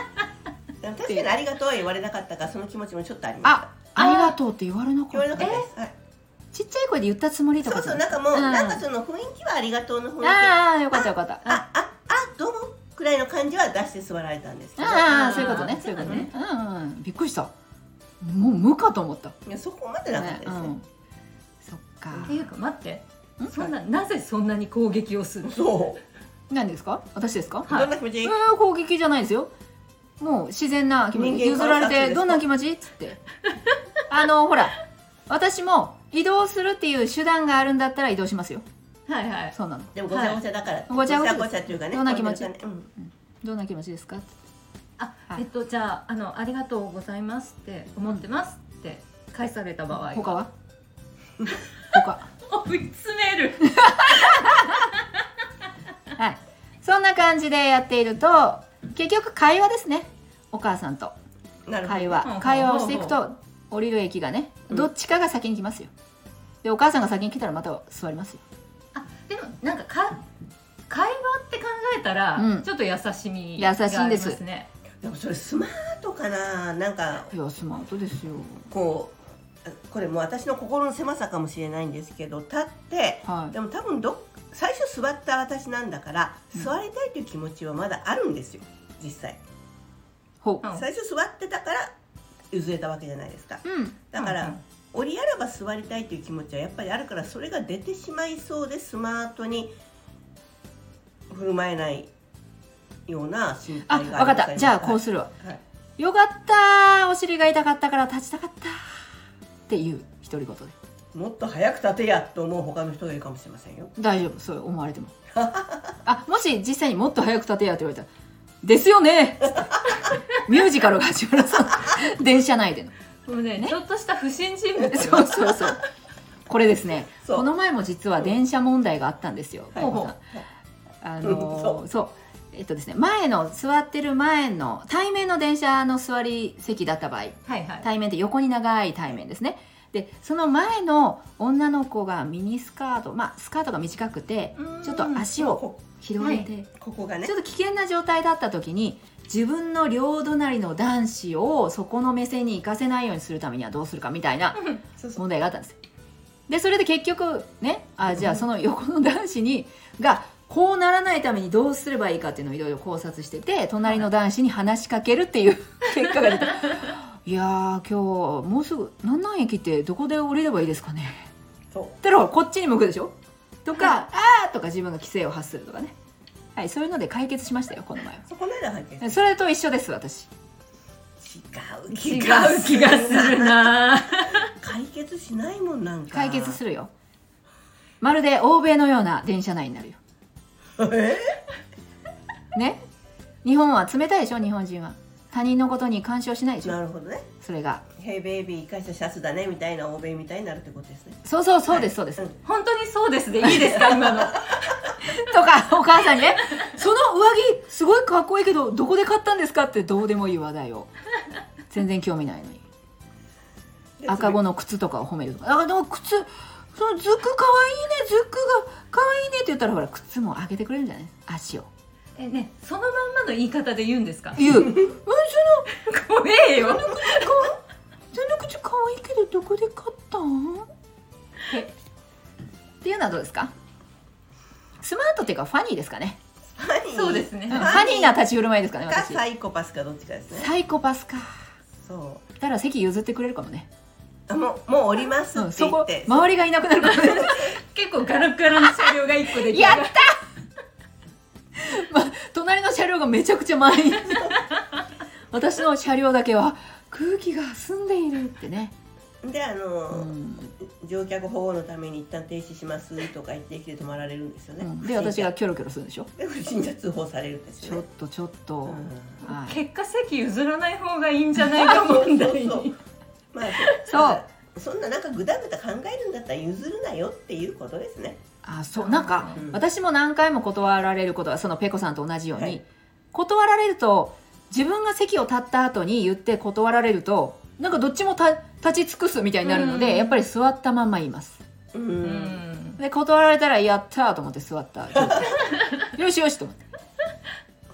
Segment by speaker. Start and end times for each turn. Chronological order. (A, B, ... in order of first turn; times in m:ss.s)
0:00.8-0:03.7 A
0:03.4-0:05.6 B
0:04.0-0:04.3 C
0:05.1-0:05.9 A
0:06.5-0:08.8 B
0:07.6-0:16.3 A
0:10.2-0:11.6 B
0:14.8-0:17.5 B
0:15.0-0:16.3 C
0:18.2-0:19.4 B
0:19.4-0:20.8 A
0:20.2-0:20.8 B
0:21.6-0:22.4 B
0:22.1-0:22.5 A
0:22.3-0:25.6 C
0:23.4-0:23.6 B
0:25.4-0:26.0 A
0:26.5-0:29.5 B
0:27.7-0:27.9 C
0:27.7-0:28.4 A
0:30.2-0:33.2 B
0:31.1-0:32.4 A
0:34.1-0:38.6 B
0:39.1-0:39.6 C
0:39.5-0:40.0 B
0:39.9-0:42.9 A
0:40.1-0:40.4 C
0:40.9-0:44.3 B
0:45.0-0:50.4 C
0:49.9-0:50.5 B
0:51.9-0:52.3 B
0:52.4-0:54.4 C
0:53.7-0:54.7 B
0:56.2-1:01.2 B
1:01.7-1:02.3 A
1:01.8-1:05.9 B
1:02.2-1:03.2 C
1:06.6-1:08.4 B
1:08.9-1:10.2 C
1:10.9-1:14.7 C
1:12.4-1:12.7 B
1:13.6-1:14.4 B
1:15.0-1:17.3 A
1:17.3-1:18.7 B
1:18.7-1:29.4 A
1:23.2-1:23.6 B
1:30.4-1:30.7 B
1:30.7-1:31.9 A
1:32.5-1:39.7 A
1:33.6-1:34.0 B
1:34.2-1:34.6 C
1:41.3-1:42.1 A
1:43.1-1:45.6 A
1:43.8-1:45.3 B
1:46.0-1:49.0 B
1:49.7-1:50.7 B
1:51.1-1:53.9 A
1:54.0-1:55.1 B
1:55.3-1:56.0 A
1:56.0-1:58.1 B
1:58.6-1:59.7 B
2:00.4-2:02.9 B
2:03.3-2:05.4 C
2:04.8-2:05.8 B
2:04.9-2:05.8 A
2:06.5-2:10.2 B
2:09.7-2:10.5 A
2:09.8-2:10.1 C
2:11.0-2:26.7 B
2:11.2-2:11.8 A
2:17.5-2:17.9 C
2:24.6-2:25.3 C
2:25.4-2:25.8 A
2:26.2-2:26.5 C
2:26.8-2:27.3 A
2:27.2-2:35.8 B
2:36.5-2:51.3 B
2:38.1-2:38.4 A
2:51.7-2:52.0 A
2:52.0-2:56.0 B
2:56.6-2:58.2 B
2:58.2-2:59.2 A
2:59.0-3:00.3 B
3:01.2-3:03.7 A
3:01.9-3:04.5 C
3:02.1-3:02.6 B
3:04.5-3:06.6 A
3:06.1-3:06.9 B
3:08.0-3:10.0 B
3:10.8-3:11.4 A
3:12.5-3:12.8 B
3:13.4-3:16.8 B
3:16.6-3:17.3 A
3:17.4-3:17.8 B
3:18.0-3:22.4 A
3:21.2-3:22.3 B
3:22.4-3:24.8 C
3:23.7-3:24.3 A
3:25.0-3:30.9 B
3:31.7-3:32.6 B
3:34.0-3:34.4 A
3:34.1-3:41.7 B
3:42.2-3:44.4 C
3:44.4-3:45.7 B
3:45.8-3:47.4 C
3:46.6-3:47.6 B
3:48.1-3:50.7 B
3:52.8-3:53.5 B
3:54.8-3:56.2 B
3:56.5-3:58.2 A
3:56.9-3:57.8 C
3:57.5-3:59.2 B
3:58.9-4:00.5 A
4:00.3-4:01.4 B
4:01.8-4:02.2 A
4:02.4-4:03.7 B
4:04.3-4:06.3 A
4:05.3-4:07.6 B
4:06.9-4:07.6 A
4:06.9-4:10.0 C
4:08.6-4:10.2 B
4:11.6-4:14.4 B
4:15.3-4:18.7 B
4:19.2-4:25.3 A
4:19.9-4:20.5 B
4:24.6-4:26.1 B
4:26.2-4:27.8 A
4:27.6-4:29.6 B
4:28.6-4:29.2 A
4:29.2-4:32.8 C
4:31.7-4:32.7 A
4:33.3-4:38.2 A
4:33.5-4:33.8 C
4:33.9-4:34.2 B
4:38.4-4:51.4 B
4:38.8-4:39.4 C
4:39.3-4:39.7 A
4:49.4-4:50.2 C
4:51.7-4:52.4 A
4:52.0-4:52.8 C
4:52.8-4:56.6 B
4:54.9-4:55.5 A
4:55.4-4:55.8 C